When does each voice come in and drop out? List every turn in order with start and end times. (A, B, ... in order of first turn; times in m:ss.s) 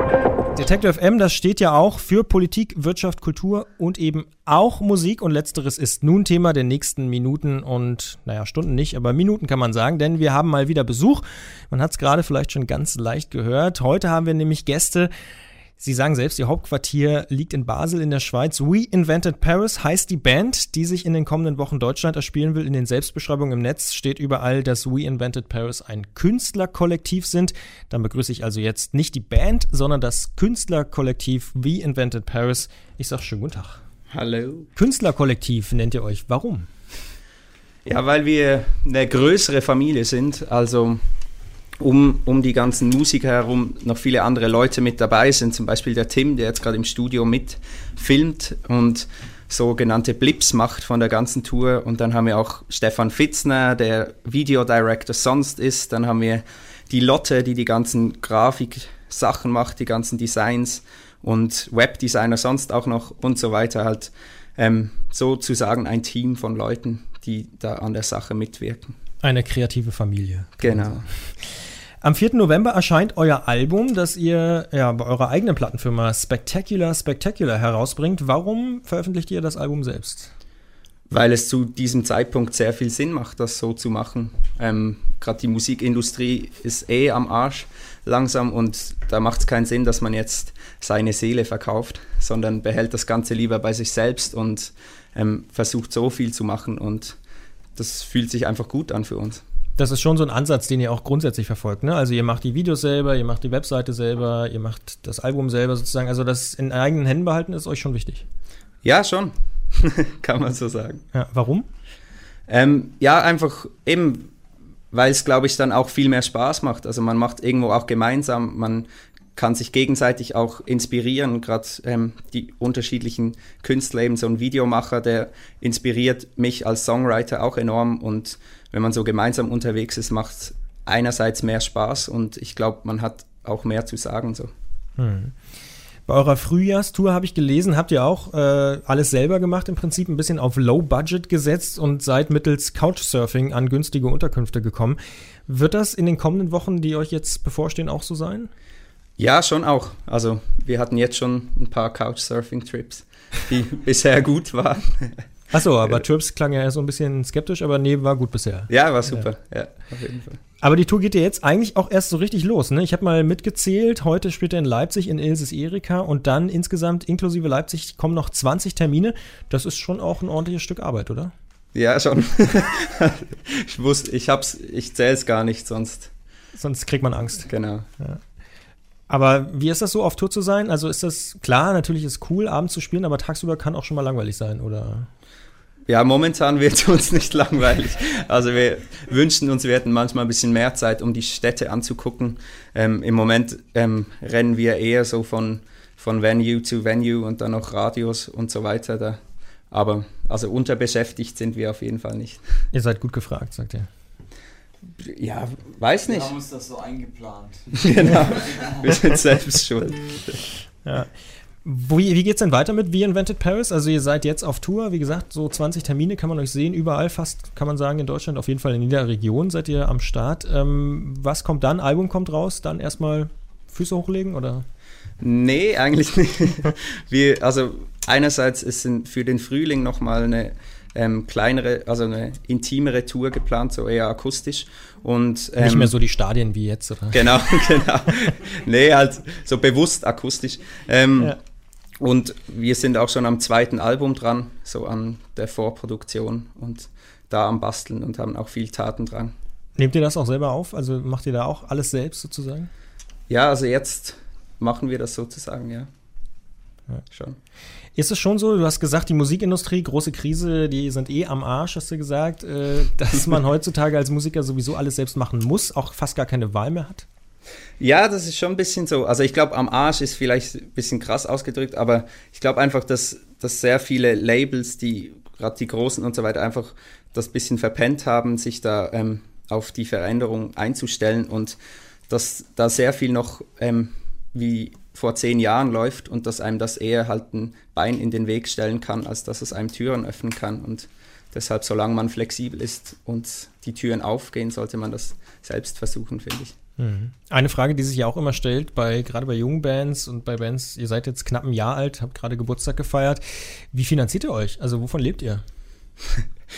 0:00.5-0:15.1 A
0:15.8-0:33.8 A
0:34.1-0:34.7 B
0:34.8-0:36.7 A
0:37.8-0:41.0 B
0:41.8-1:08.9 B
1:09.2-1:11.0 A
1:10.6-1:11.0 B
1:12.0-1:20.3 A
1:21.1-1:37.2 B
1:37.8-1:39.4 B
1:39.8-1:48.2 A
1:48.8-1:51.0 B
1:51.1-1:51.6 A
1:52.5-1:54.3 B
1:54.9-2:14.5 B
2:15.0-2:15.3 A
2:16.1-2:28.5 A
2:29.2-2:35.2 B
2:35.5-2:39.2 A
2:38.7-2:40.4 B
2:40.6-2:51.3 A
2:51.7-2:56.1 B
2:56.6-2:58.2 A
2:57.5-2:57.9 B
2:59.1-3:05.1 A
3:05.9-3:19.2 B
3:19.7-3:22.4 B
3:22.7-3:23.9 A
3:25.0-3:26.3 B
3:26.1-3:28.8 C
3:27.8-3:30.5 B
3:30.8-3:31.1 A
3:31.6-3:44.6 A
3:45.2-3:55.9 B
3:55.6-3:57.6 A
3:57.1-4:01.4 B
4:02.0-4:09.3 B
4:09.8-4:12.7 A
4:13.3-4:15.9 B
4:17.1-4:17.4 B
4:17.9-4:27.0 A
4:27.8-4:41.6 B
4:42.1-4:56.5 B
4:56.8-5:05.4 A